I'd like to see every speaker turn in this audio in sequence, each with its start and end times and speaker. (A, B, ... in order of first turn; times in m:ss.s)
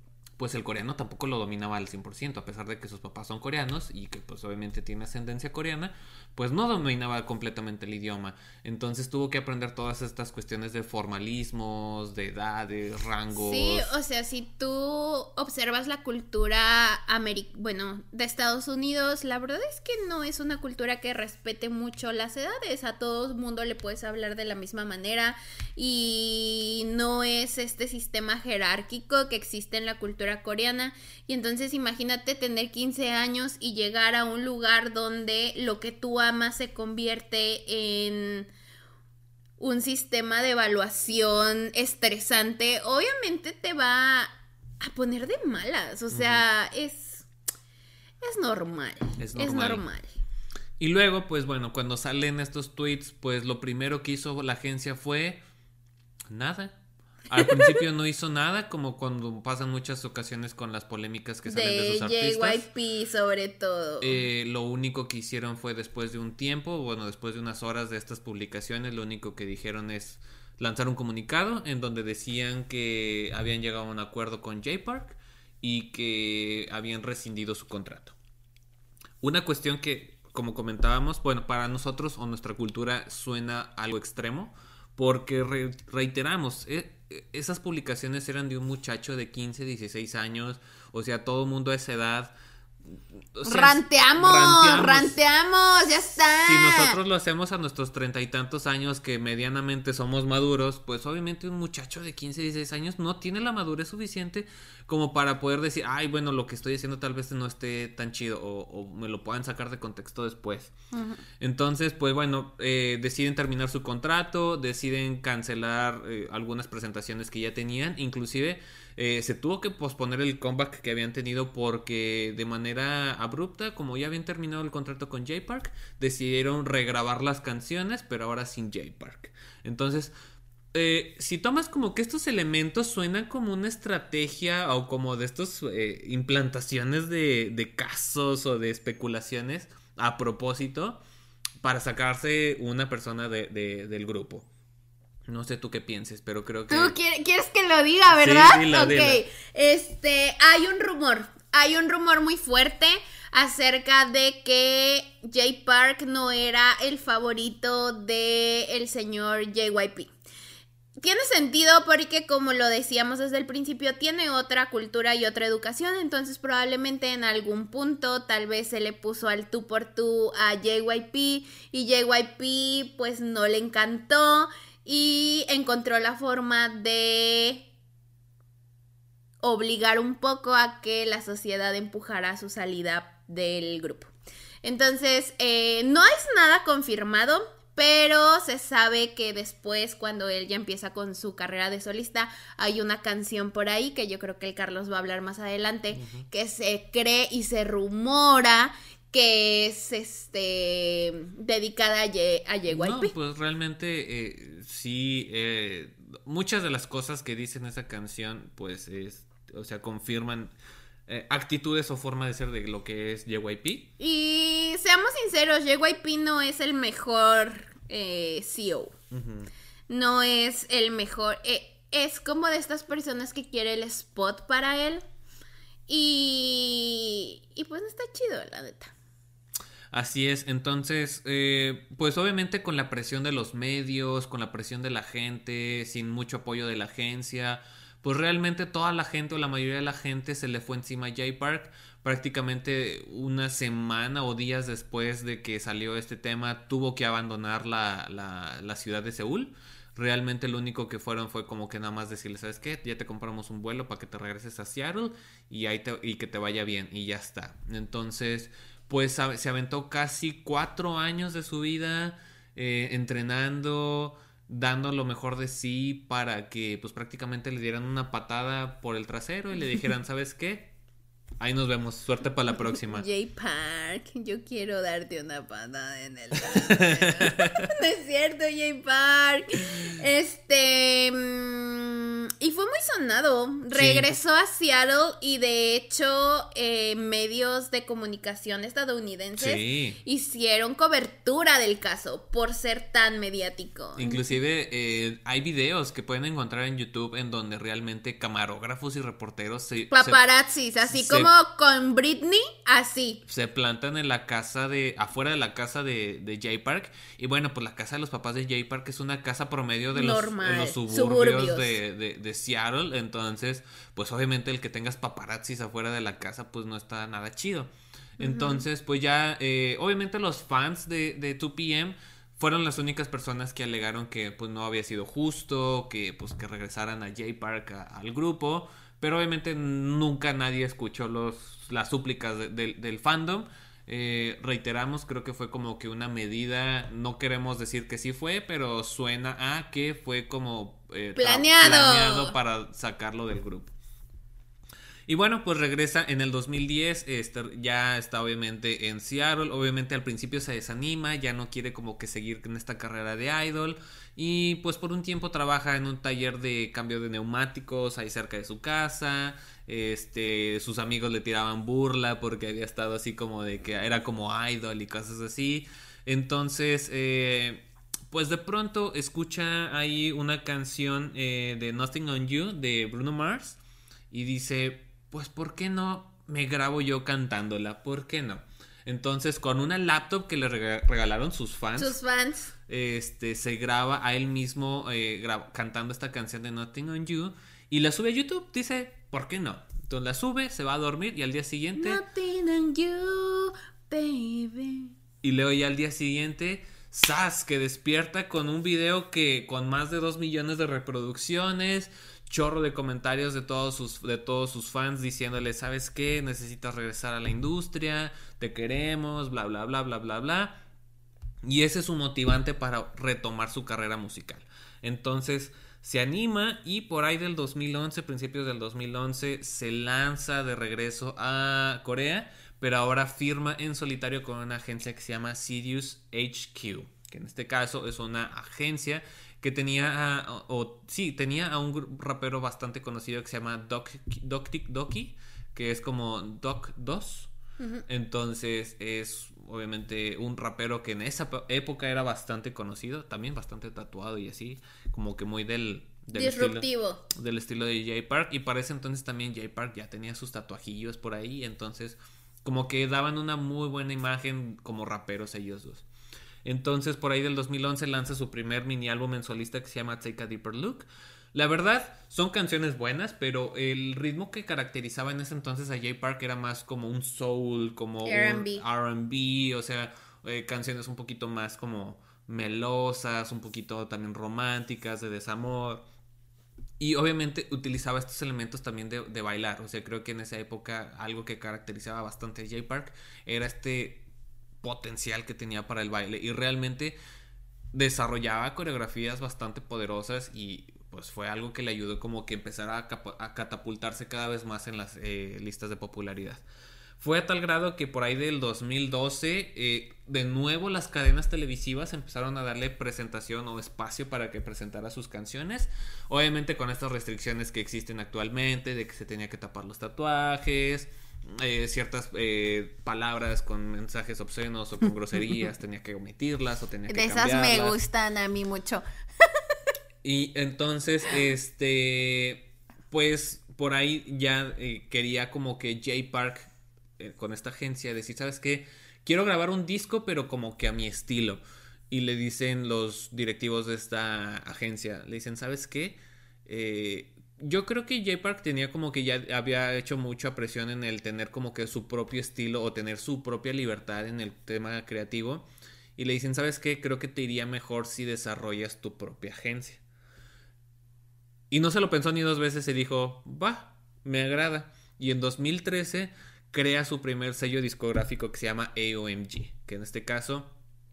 0:00.4-0:13.9 A
0:13.4-0:38.5 B
0:39.6-0:47.3 B
0:46.1-0:46.4 A
0:48.2-0:50.1 B
0:49.2-0:49.8 A
0:50.8-0:55.4 A
0:56.3-0:56.8 A
0:57.3-1:02.6 A
0:57.4-0:57.7 B
1:01.5-1:04.2 B
1:04.0-1:18.2 A
1:19.2-1:32.3 A
1:32.9-1:35.2 A
1:33.4-1:37.0 B
1:36.5-1:50.7 A
1:50.9-1:51.2 B
1:51.4-2:10.1 A
2:10.7-2:21.0 A
2:21.6-2:24.5 A
2:25.3-2:27.0 A
2:26.7-2:40.1 B
2:28.1-2:29.2 A
2:41.0-2:57.7 B
2:59.4-3:04.1 B
3:04.6-3:23.1 B
3:15.9-3:16.3 A
3:22.7-3:30.5 A
3:31.1-3:33.9 A
3:34.0-3:38.9 B
3:39.1-3:39.5 A
3:39.9-3:45.0 B
3:45.9-3:48.9 B
3:49.9-4:30.7 A
4:31.4-4:33.1 A
4:32.8-4:54.2 B
4:36.5-4:37.6 A
4:43.7-4:44.1 A
4:49.4-4:50.0 A
4:54.0-5:00.2 A
4:59.9-5:03.2 B
5:00.9-5:01.3 A
5:03.3-5:43.7 A
5:09.9-5:11.8 B
5:18.2-5:18.6 B
5:41.2-5:42.4 B
5:45.1-6:13.6 A
6:14.1-6:22.0 A
6:21.8-6:22.5 B
6:22.7-6:32.0 A
6:31.8-6:34.9 B
6:35.2-6:50.6 A
6:51.4-7:17.3 A
7:17.6-7:17.8 B
7:17.9-7:35.8 A
7:26.2-7:27.0 B
7:36.4-7:55.8 A
7:48.0-7:48.6 B
7:56.8-8:04.0 A
8:04.6-8:07.0 A
8:07.7-8:16.4 A
8:17.0-8:37.8 A
8:36.9-8:38.8 B
8:40.0-9:09.8 A
9:11.5-9:20.5 A